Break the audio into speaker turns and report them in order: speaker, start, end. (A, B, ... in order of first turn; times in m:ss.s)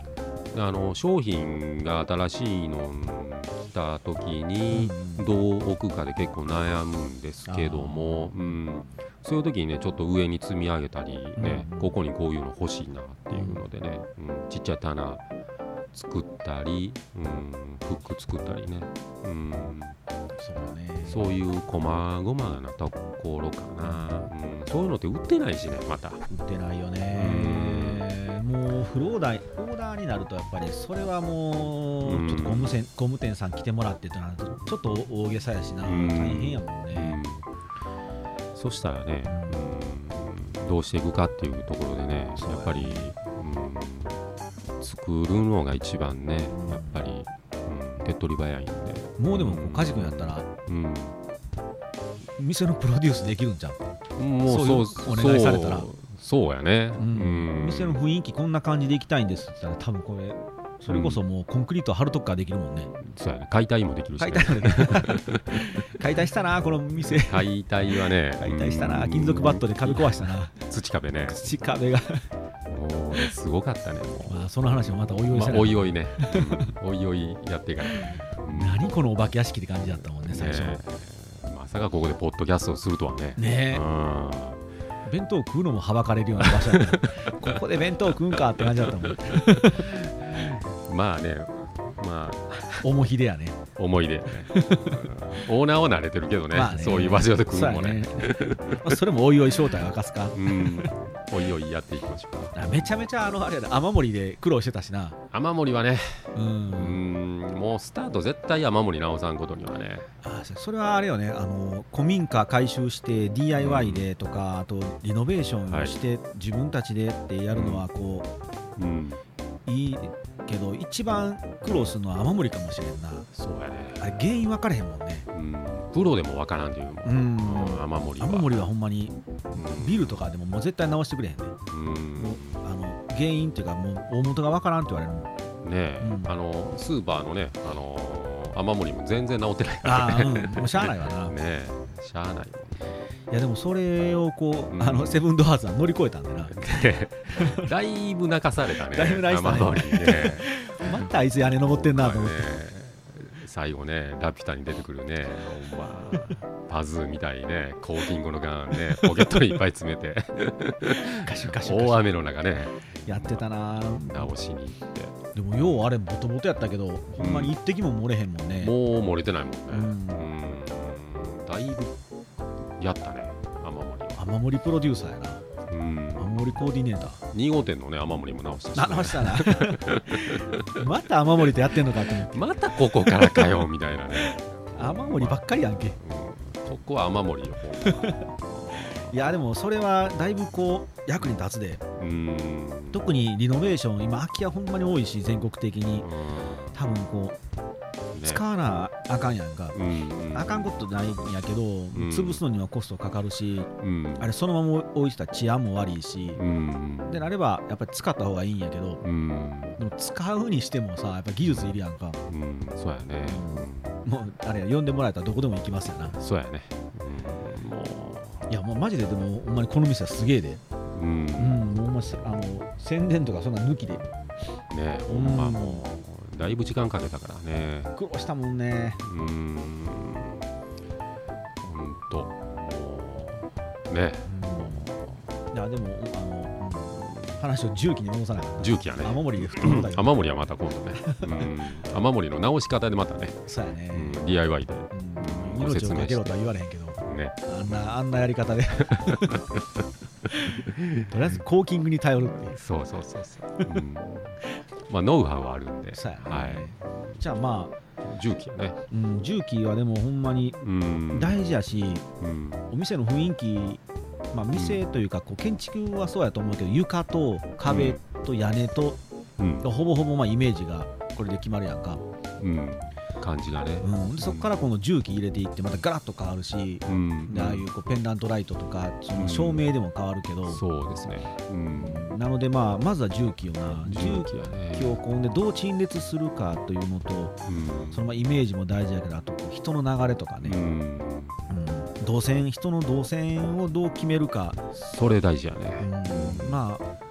0:00.5-0:15.2 A
0:04.7-0:05.3 B
0:07.5-0:08.6 B
0:11.4-0:12.0 B
0:13.3-0:13.6 B
0:15.9-0:20.0 A
0:20.4-0:21.4 B
0:21.0-0:26.2 A
0:23.8-0:24.3 B
0:26.3-0:37.2 B
0:27.1-0:28.1 A
0:32.0-0:32.8 A
0:35.8-0:37.5 A
0:38.5-0:44.2 A
0:39.3-0:39.7 B
0:42.4-0:43.1 B
0:44.8-0:51.2 A
0:46.5-0:47.0 B
0:49.2-0:50.5 B
0:52.4-0:55.9 B
0:54.2-0:58.0 A
0:57.0-1:02.9 B
1:00.9-1:01.2 A
1:03.0-1:05.8 A
1:04.2-1:10.6 B
1:07.1-1:11.4 A
1:11.3-1:12.2 B
1:12.7-1:14.5 A
1:14.2-1:16.7 B
1:15.3-1:18.9 A
1:17.9-1:20.8 B
1:20.2-1:24.6 A
1:23.4-1:23.8 B
1:25.0-1:30.0 B
1:26.4-1:27.6 A
1:28.1-1:32.9 A
1:32.8-1:33.6 B
1:33.8-1:39.0 A
1:34.3-1:35.2 B
1:36.5-1:40.9 B
1:40.3-1:42.8 A
1:42.5-1:45.2 B
1:45.3-1:50.1 A
1:46.4-1:47.0 B
1:50.2-1:58.3 B
1:53.5-1:54.1 A
1:55.7-1:56.0 A
1:57.5-1:57.9 A
1:58.8-1:59.2 A
1:59.7-2:03.3 B
2:01.6-2:02.0 A
2:03.3-2:04.2 A
2:04.0-2:05.3 B
2:05.3-2:08.7 A
2:07.0-2:11.6 B
2:09.5-2:10.3 A
2:11.7-2:12.6 A
2:12.2-2:15.3 B
2:15.6-2:22.9 A
2:16.0-2:16.3 B
2:19.8-2:21.4 B
2:23.3-2:26.6 B
2:24.7-2:25.2 A
2:26.5-2:31.0 A
2:27.3-2:27.7 B
2:28.9-2:32.5 B
2:31.7-2:45.2 A
2:38.8-2:39.5 B
2:41.0-2:42.2 B
2:43.1-2:44.3 B
2:45.3-2:48.7 B
2:47.2-2:47.5 A
2:48.6-2:52.0 A
2:49.7-2:50.3 B
2:52.8-2:54.3 A
2:54.2-2:55.4 B
2:55.7-2:56.6 A
2:56.2-2:57.2 B
2:57.3-3:00.8 A
2:58.7-3:06.0 B
3:02.2-3:05.4 A
3:06.0-3:09.2 A
3:07.8-3:08.2 B
3:08.9-3:11.8 B
3:12.0-3:13.1 A
3:12.9-3:16.1 B
3:16.0-3:16.8 A
3:16.7-3:17.4 B
3:18.1-3:18.4 A
3:18.2-3:19.8 B
3:19.7-3:20.8 A
3:20.3-3:26.4 B
3:21.9-3:22.4 A
3:23.8-3:24.3 A
3:26.4-3:27.2 A
3:27.1-3:29.0 B
3:29.0-3:29.8 A
3:29.8-3:32.2 B
3:32.3-3:34.0 A
3:33.2-3:36.2 B
3:36.1-3:38.5 A
3:38.5-3:40.6 B
3:40.9-3:41.7 A
3:41.4-3:44.1 B
3:44.7-3:47.9 A
3:45.1-3:45.8 B
3:48.0-3:49.0 B
3:49.0-3:50.5 A
3:51.6-3:55.2 A
3:54.3-4:00.1 B
3:56.9-3:57.4 A
3:58.6-4:06.4 A
4:01.0-4:01.5 B
4:03.5-4:04.2 B
4:04.9-4:09.4 B
4:07.0-4:07.9 A
4:09.0-4:09.9 A
4:10.4-4:12.6 B
4:10.6-4:11.4 A
4:12.4-4:17.2 A
4:15.9-4:17.7 B
4:18.0-4:18.8 A
4:18.9-4:22.1 B
4:20.6-4:21.4 A
4:22.2-4:22.6 A
4:22.7-4:29.0 B
4:24.5-4:24.8 A
4:27.6-4:28.0 A
4:29.4-4:29.7 A
4:29.6-4:32.0 B
4:32.4-4:34.5 A
4:33.8-4:40.6 B
4:36.8-4:37.6 A
4:39.1-4:39.7 A
4:40.5-4:42.1 A
4:41.7-4:47.4 B
4:43.8-4:45.0 A
4:47.5-4:48.1 A
4:47.9-4:50.6 B
4:50.4-4:51.4 A
4:51.5-4:54.7 B
4:54.7-4:56.6 A
4:55.8-4:56.8 B